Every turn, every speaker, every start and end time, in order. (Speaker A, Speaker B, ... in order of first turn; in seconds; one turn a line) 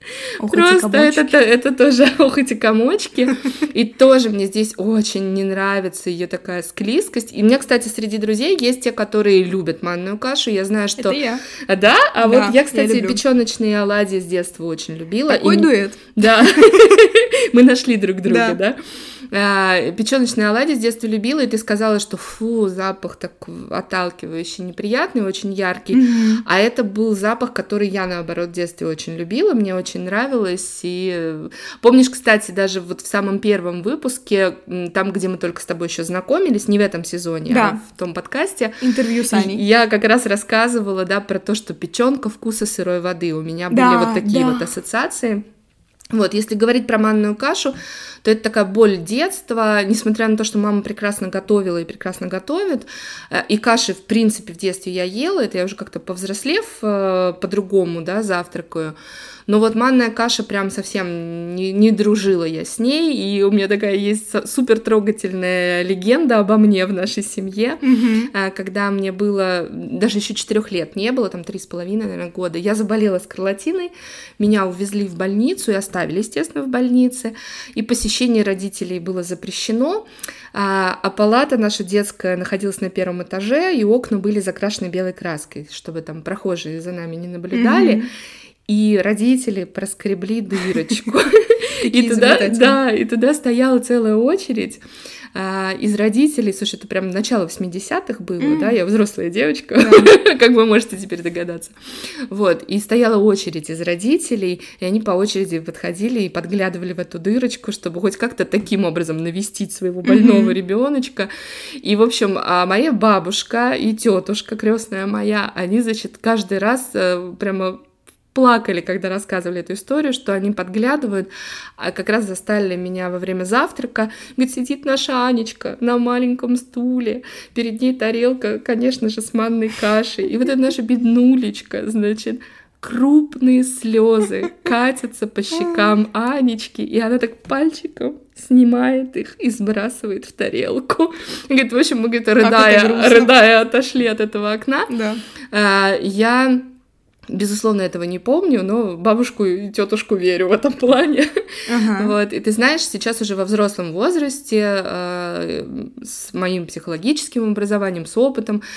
Speaker A: 0.4-1.3
Speaker B: 0.4-18.8
Speaker A: 11.0-11.4
Speaker A: 12.2-13.2
Speaker A: 15.3-16.9
Speaker A: 18.3-18.6
Speaker B: 19.3-45.4
Speaker A: 25.9-26.4
Speaker A: 37.5-37.8
Speaker A: 38.8-39.6
Speaker A: 43.7-44.7
Speaker B: 46.1-59.0
Speaker B: 59.5-88.1
Speaker A: 67.8-68.3
Speaker A: 87.5-88.1
Speaker B: 88.7-94.8
Speaker A: 91.8-92.8
Speaker B: 95.3-101.8
Speaker A: 98.4-98.8
Speaker A: 99.8-100.1
Speaker B: 102.3-111.3
Speaker A: 110.1-110.5
Speaker B: 111.8-144.9
Speaker A: 135.5-135.8
Speaker A: 142.4-143.3
Speaker A: 144.9-145.2
Speaker B: 145.5-146.7
Speaker B: 147.3-158.6
Speaker A: 151.7-152.2